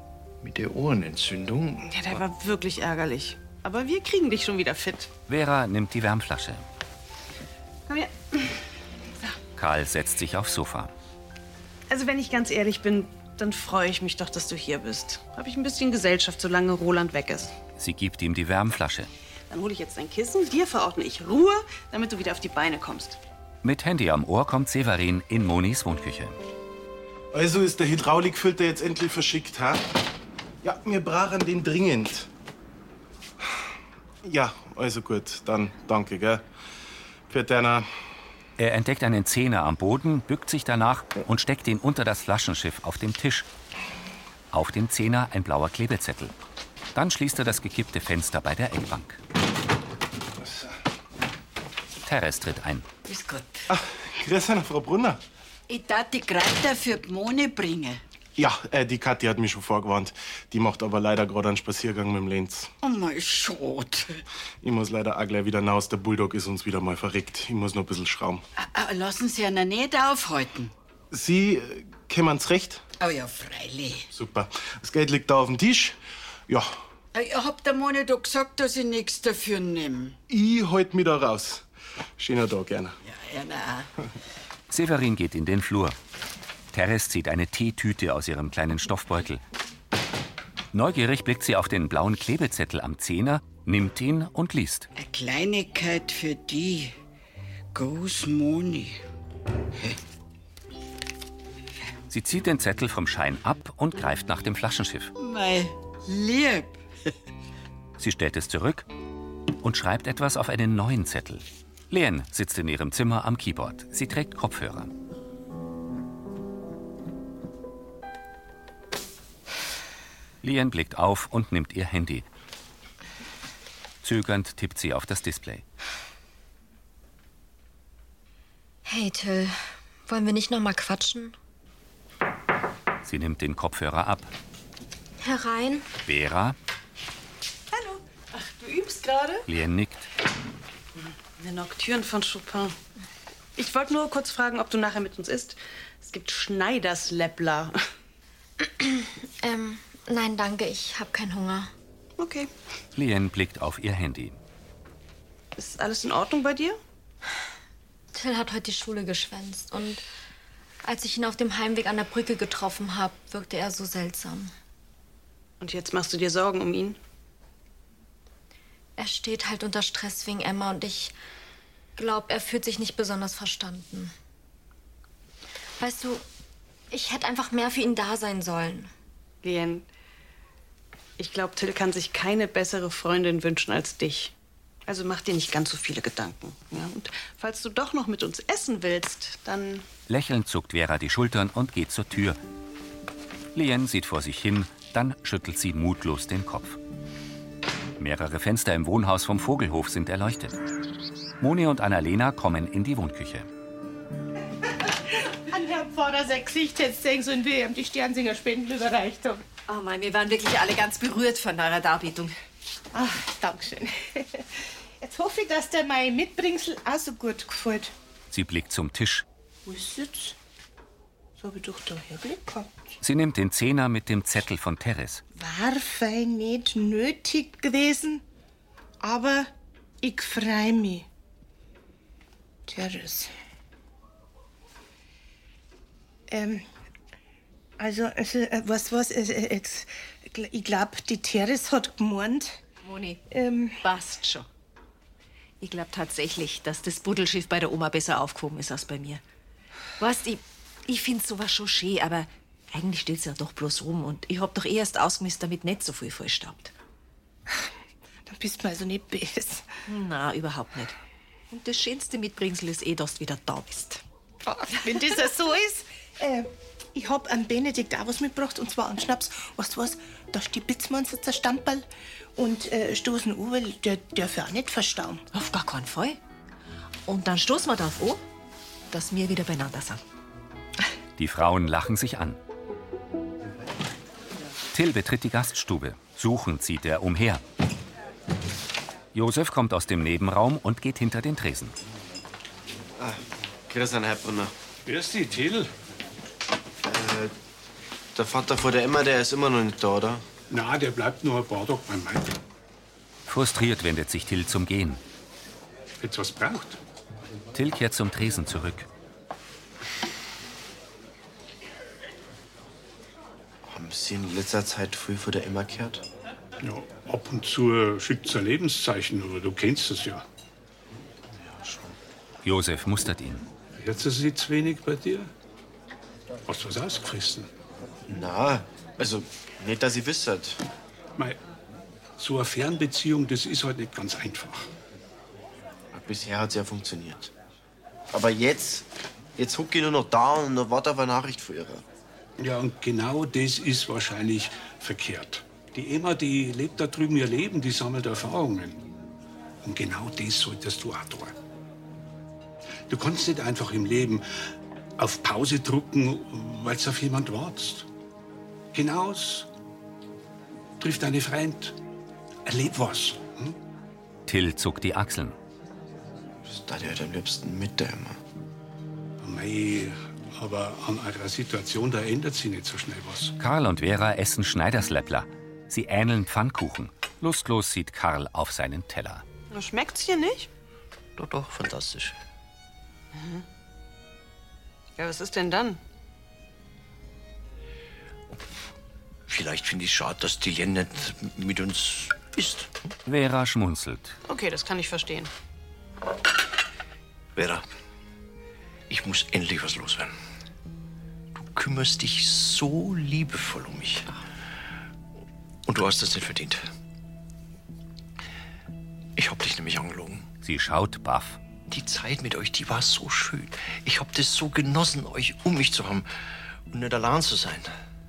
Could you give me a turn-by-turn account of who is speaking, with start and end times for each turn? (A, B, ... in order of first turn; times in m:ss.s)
0:00.4-0:02.2 A
0:01.8-0:05.1 B
0:05.3-0:06.6 C
0:07.9-0:08.6 B
0:09.6-0:10.9 C
0:11.9-0:17.5 B
0:17.8-0:19.1 C
0:19.5-0:23.2 B
0:23.6-0:26.4 C
0:27.3-0:29.8 D
0:30.6-0:32.3 D
0:34.2-0:36.4 D
0:37.3-0:37.9 D
0:38.6-0:43.5 C
0:44.5-0:46.3 C
0:46.9-0:49.2 C
0:52.0-0:52.8 C
0:53.1-0:53.6 E
0:53.7-0:55.2 D
0:55.7-0:58.0 E
0:58.4-1:02.7 D
1:02.8-1:04.2 E
1:04.6-1:08.4 D
1:08.6-1:10.7 E
1:11.1-1:12.8 D
1:13.0-1:14.1 E
1:14.1-1:16.0 D
1:17.1-1:20.2 E
1:20.3-1:21.6 D
1:22.2-1:23.0 D
1:23.0-1:23.9 E
1:24.7-1:26.0 C
1:26.7-1:29.4 C
1:30.7-1:34.9 C
1:35.0-1:36.9 E
1:37.7-1:39.0 E
1:42.1-1:45.1 C
1:45.2-1:46.8 E
1:48.0-1:48.8 C
1:49.6-1:54.9 C
2:00.4-2:02.2 C
2:04.0-2:05.6 C
2:08.8-2:11.3 F
2:13.0-2:14.3 C
2:15.2-2:15.9 F
2:16.0-2:16.6 C
2:17.7-2:19.4 B
2:19.4-2:20.0 C
2:21.0-2:22.8 B
2:23.6-2:27.8 B
2:28.6-2:31.7 F
2:32.2-2:32.5 B
2:32.9-2:34.4 C
2:35.6-2:36.8 B
2:38.1-2:40.0 F
2:40.8-2:44.5 F
2:45.6-2:47.0 B
2:49.0-2:51.1 F
2:52.0-2:54.1 F
2:55.8-2:56.2 F
2:56.9-2:58.9 F
2:59.4-2:59.8 B
3:01.2-3:04.3 B
3:04.8-3:09.9 B
3:10.1-3:12.4 C
3:13.5-3:16.8 C
3:18.0-3:20.6 C
3:21.4-3:23.5 C
3:25.2-3:29.4 G
3:29.7-3:32.4 H
3:32.9-3:34.5 G
3:35.0-3:37.9 G
3:38.3-3:39.2 C
3:39.6-3:40.4 G
3:41.4-3:42.9 G
3:43.0-3:45.2 C
3:45.4-3:48.2 G
3:49.0-3:49.5 G
3:50.0-3:51.1 G
3:52.7-3:53.3 G
3:56.3-3:56.6 G
3:57.8-4:02.6 G
4:02.8-4:03.2 H
4:03.3-4:03.8 G
4:03.8-4:04.4 H
4:05.6-4:09.2 H
4:10.0-4:16.7 H
4:18.3-4:19.6 G
4:19.9-4:20.9 H
4:21.5-4:24.0 H
4:24.5-4:31.8 G
4:32.4-4:35.2 G
4:35.3-4:36.2 H
4:37.1-4:38.2 H
4:38.9-4:40.0 H
4:41.2-4:42.4 C
4:44.7-4:47.4 C
4:49.1-4:51.7 C
4:53.0-4:54.5 I
4:54.8-4:55.7 J
4:56.8-4:57.3 I
4:58.1-5:00.2 I
5:00.5-5:02.4 J
5:03.3-5:05.0 C
5:06.0-5:06.8 J
5:07.5-5:08.9 C
5:13.6-5:16.0 I
5:16.6-5:20.2 J
5:22.4-5:23.4 C
5:23.8-5:25.3 J
5:26.4-5:27.5 J
5:28.1-5:30.6 I
5:32.2-5:34.7 J
5:35.9-5:37.3 I
5:38.1-5:41.8 I
5:42.4-5:48.8 J
5:49.6-5:51.3 J
5:52.9-5:54.2 J
5:55.0-5:57.9 J
5:58.7-5:59.5 J
6:00.8-6:01.8 J
6:02.4-6:03.6 J
6:04.3-6:05.4 C
6:06.4-6:08.2 I
6:09.2-6:13.3 J
6:13.4-6:19.2 C
6:19.5-6:20.5 B
6:21.2-6:22.2 A
6:23.1-6:23.4 B
6:25.0-6:25.8 B
6:29.3-6:32.7 A
6:33.0-6:34.1 C
6:34.3-6:35.3 B
6:37.3-6:37.6 A
6:38.9-6:40.1 A
6:41.3-6:44.1 A
6:45.6-6:46.7 A
6:49.2-6:50.3 A
6:50.4-6:51.4 C
6:51.6-6:56.1 A
6:56.7-6:57.7 A